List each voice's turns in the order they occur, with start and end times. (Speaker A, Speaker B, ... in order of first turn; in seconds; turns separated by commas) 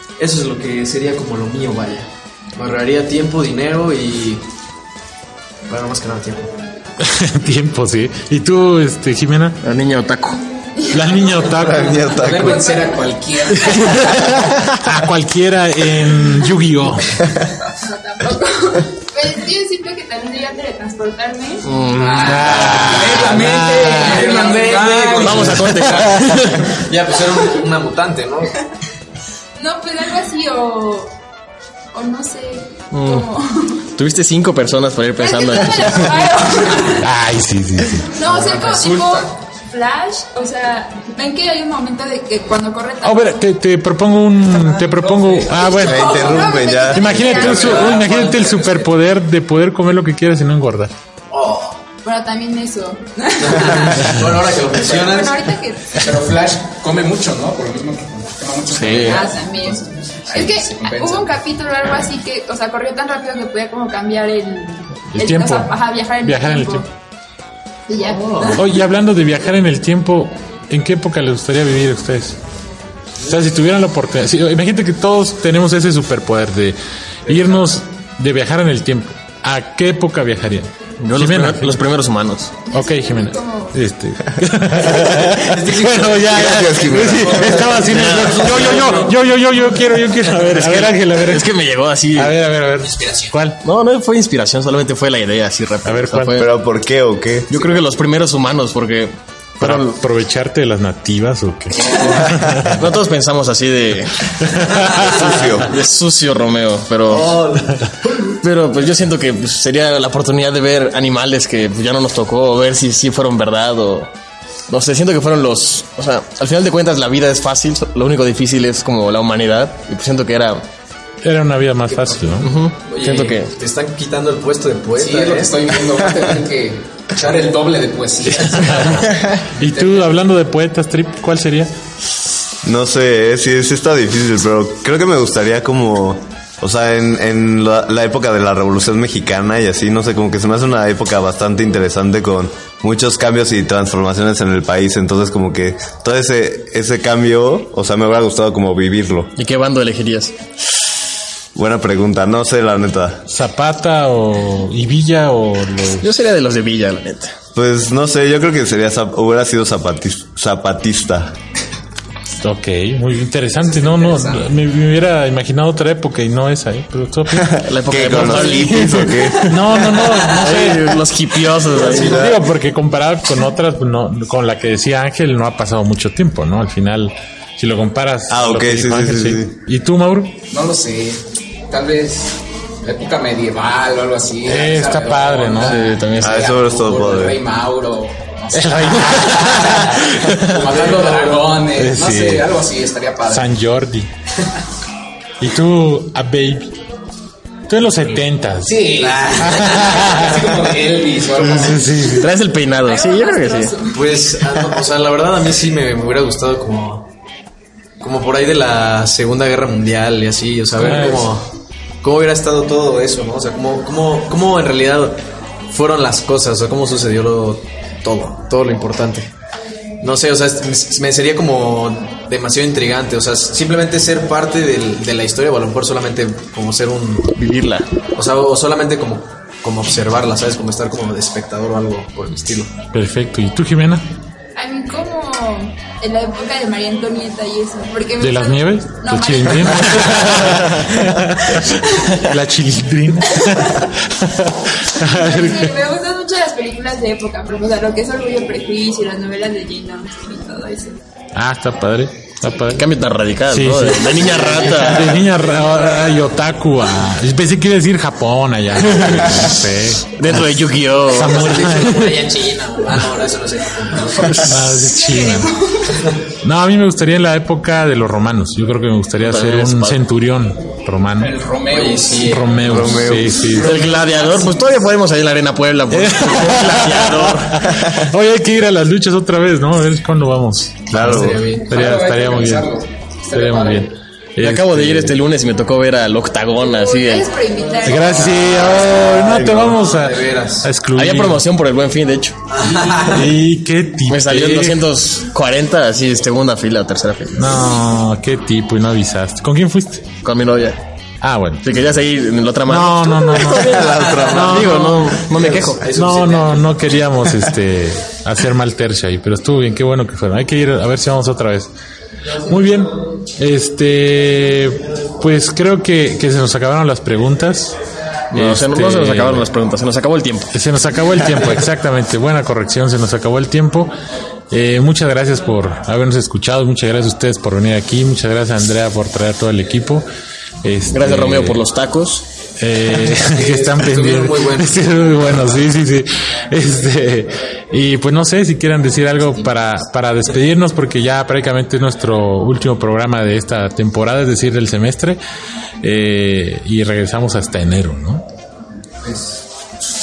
Speaker A: 0.2-4.5, Speaker A: 5.7-6.5, Speaker B: 7.0-9.6, Speaker C: 9.6-10.4, Speaker D: 10.8-13.1, Speaker B: 10.9-12.0, Speaker E: 11.5-12.8, Speaker F: 12.1-14.2, Speaker C: 13.5-14.8, Speaker B: 13.9-17.2, Speaker D: 17.7-22.8, Speaker C: 21.6-23.0, Speaker F: 21.9-26.7, Speaker B: 22.1-24.4, Speaker D: 23.7-25.0, Speaker A: 23.9-25.8, Speaker C: 25.1-26.8, Speaker A: 26.6-28.6, Speaker D: 29.6-31.1, Speaker D: 31.9-33.9, Speaker C: 32.9-33.3, Speaker C: 34.0-36.2, Speaker D: 35.2-37.1, Speaker B: 37.0-38.1, Speaker D: 38.1-43.4, Speaker F: 38.2-39.3, Speaker B: 43.0-50.9, Speaker F: 44.5-46.4, Speaker D: 45.5-48.1, Speaker E: 45.8-47.9, Speaker F: 47.3-48.9, Speaker A: 51.3-51.8, Speaker D: 52.0-54.1, Speaker A: 53.4-55.5, Speaker D: 55.0-56.0, Speaker F: 56.0-61.4, Speaker C: 58.7-59.3, Speaker D: 59.0-66.9, Speaker B: 65.1-66.8, Speaker D: 67.9-68.7, Speaker A: 68.0-68.6, Speaker B: 68.6-72.4, Speaker B: 73.2-81.8, Speaker A: 77.3-77.7, Speaker C: 81.0-82.7, Speaker D: 82.7-83.8, Speaker B: 82.7-93.6, Speaker A: 85.2-89.2, Speaker E: 86.3-87.6, Speaker C: 87.8-89.0, Speaker C: 90.2-92.4, Speaker A: 92.8-93.3, Speaker C: 93.6-96.5, Speaker B: 95.8-96.4, Speaker E: 96.4-97.5, Speaker C: 97.5-100.0, Speaker B: 99.6-102.9, Speaker C: 102.6-107.4, Speaker B: 104.4-105.4, Speaker E: 105.0-105.7, Speaker A: 107.1-107.9, Speaker C: 108.4-114.1, Speaker C: 114.7-120.6, Speaker B: 121.2-122.5, Speaker C: 122.4-123.5, Speaker A: 122.8-125.7, Speaker F: 125.0-130.2, Speaker B: 128.6-131.7, Speaker E: 132.6-149.3, Speaker C: 149.4-150.3, Speaker E: 151.6-153.3, Speaker B: 153.3-156.1, Speaker C: 156.0-157.4, Speaker E: 157.6-161.3, Speaker B: 162.4-168.6, Speaker A: 163.6-164.5, Speaker E: 167.3-169.7, Speaker C: 167.6-172.2, Speaker B: 169.5-171.0, Speaker E: 171.9-172.4, Speaker B: 172.0-180.3, Speaker E: 178.3-179.5, Speaker F: 180.5-193.5, Speaker B: 184.4-185.9, Speaker C: 185.6-186.5, Speaker E: 186.2-187.4, Speaker B: 188.5-190.4, Speaker A: 190.7-191.3, Speaker B: 191.8-192.5, Speaker B: 193.3-194.1, Speaker B: 195.4-196.8, Speaker B: 197.7-200.6, Speaker F: 198.7-202.1, Speaker A: 199.0-199.9, Speaker B: 201.4-202.3, Speaker C: 202.2-203.8, Speaker D: 202.8-204.1, Speaker A: 203.9-207.1, Speaker A: 208.0-211.5, Speaker B: 210.8-211.3, Speaker A: 212.0-219.3, Speaker A: 220.0-227.3, Speaker C: 227.4-227.9, Speaker A: 228.2-232.7, Speaker B: 232.9-234.1, Speaker D: 234.6-240.4, Speaker B: 238.2-245.8, Speaker C: 240.3-240.9, Speaker D: 245.0-251.0, Speaker B: 251.3-252.9, Speaker C: 252.7-255.2, Speaker B: 253.5-260.5, Speaker C: 259.0-259.4, Speaker C: 260.1-261.5, Speaker B: 261.1-262.4, Speaker A: 261.1-264.6, Speaker C: 264.2-264.7, Speaker B: 264.4-265.6, Speaker D: 264.9-265.9, Speaker B: 266.4-271.4, Speaker C: 269.2-270.0, Speaker F: 271.2-272.4, Speaker A: 271.7-272.9, Speaker B: 272.2-273.8, Speaker E: 272.6-273.4, Speaker C: 273.5-277.7, Speaker F: 273.9-274.4, Speaker B: 275.9-282.7, Speaker A: 280.9-281.7, Speaker F: 281.7-283.9, Speaker B: 283.3-285.2, Speaker C: 284.4-287.3, Speaker D: 286.6-288.4, Speaker B: 287.8-291.4, Speaker E: 288.5-289.8, Speaker A: 289.6-290.7, Speaker C: 290.9-292.4, Speaker A: 292.5-293.3, Speaker B: 292.8-294.9, Speaker C: 294.1-297.6, Speaker B: 297.4-300.1, Speaker C: 300.2-300.8, Speaker B: 301.2-301.9, Speaker C: 301.6-305.9, Speaker B: 302.6-305.3, Speaker E: 303.4-304.7, Speaker A: 303.8-306.8, Speaker B: 305.9-311.7, Speaker B: 312.5-317.8, Speaker C: 318.3-320.5, Speaker B: 318.3-319.5, Speaker B: 320.5-323.9, Speaker B: 324.5-330.1, Speaker B: 330.6-331.6, Speaker C: 330.9-332.3, Speaker B: 332.6-345.2, Speaker A: 333.3-334.8, Speaker B: 345.8-348.2, Speaker F: 349.0-349.4